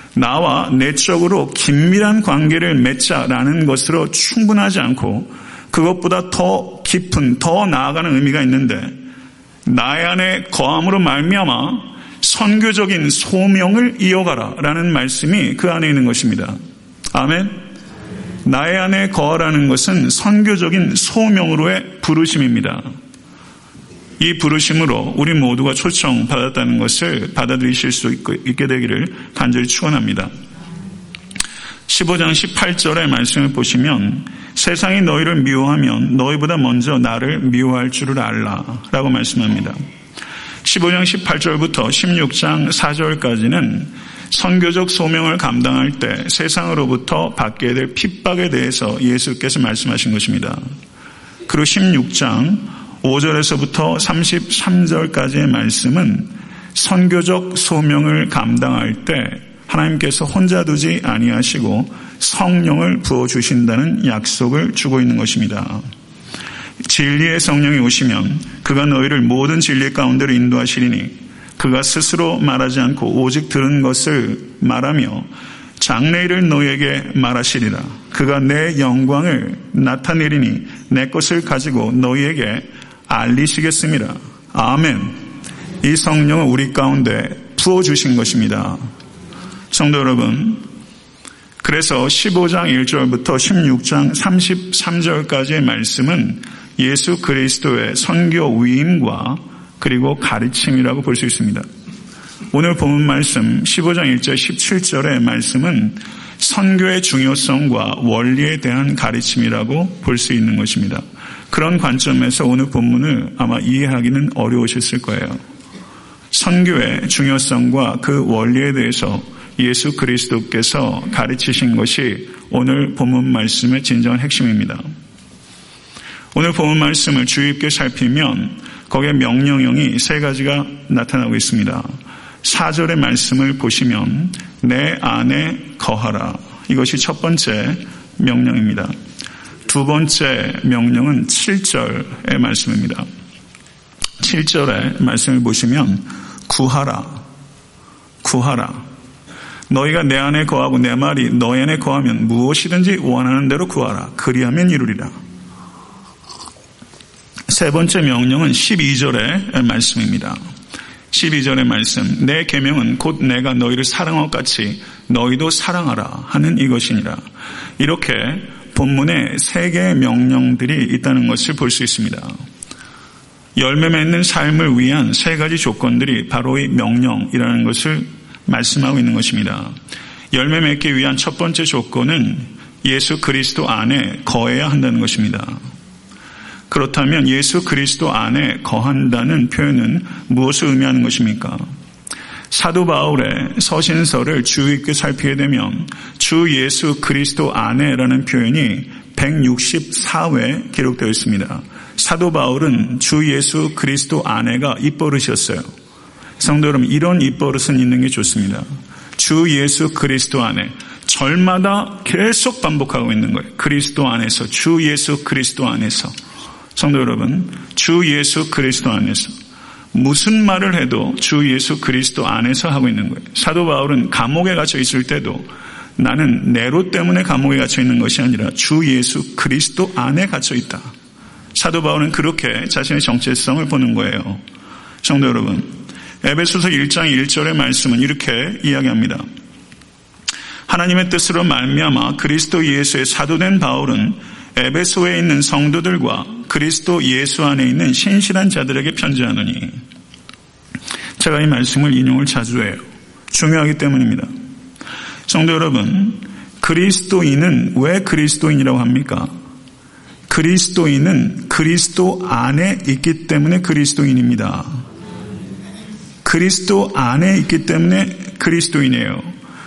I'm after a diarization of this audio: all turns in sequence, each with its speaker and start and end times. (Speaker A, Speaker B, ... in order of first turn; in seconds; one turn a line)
Speaker A: 0.2-9.0
Speaker A: 9.7-16.6
Speaker A: 17.1-17.6
Speaker A: 18.4-22.8
Speaker A: 24.2-30.3
Speaker A: 31.9-39.8
Speaker A: 40.6-50.6
Speaker A: 51.5-65.8
Speaker A: 66.8-75.3
Speaker A: 75.8-85.2
Speaker A: 85.8-88.8
Speaker A: 89.7-90.6
Speaker A: 91.6-101.7
Speaker A: 102.5-115.4
Speaker A: 116.3-124.8
Speaker A: 126.3-131.9
Speaker A: 132.4-138.9
Speaker A: 139.7-143.1
Speaker A: 144.2-147.2
Speaker A: 148.2-148.8
Speaker A: 149.7-155.1
Speaker A: 157.5-160.4
Speaker A: 161.1-167.2
Speaker A: 167.8-172.3
Speaker A: 173.6-179.7
Speaker A: 180.3-185.6
Speaker A: 186.7-191.6
Speaker A: 192.5-205.6
Speaker A: 206.4-208.7
Speaker A: 209.2-216.1
Speaker A: 216.8-219.3
Speaker A: 219.9-225.5
Speaker A: 226.0-230.9
Speaker A: 231.6-234.4
Speaker A: 235.0-239.2
Speaker A: 240.7-249.8
Speaker A: 251.2-252.8
Speaker A: 253.3-254.3
Speaker A: 255.3-259.3
Speaker A: 260.3-264.7
Speaker A: 266.2-269.3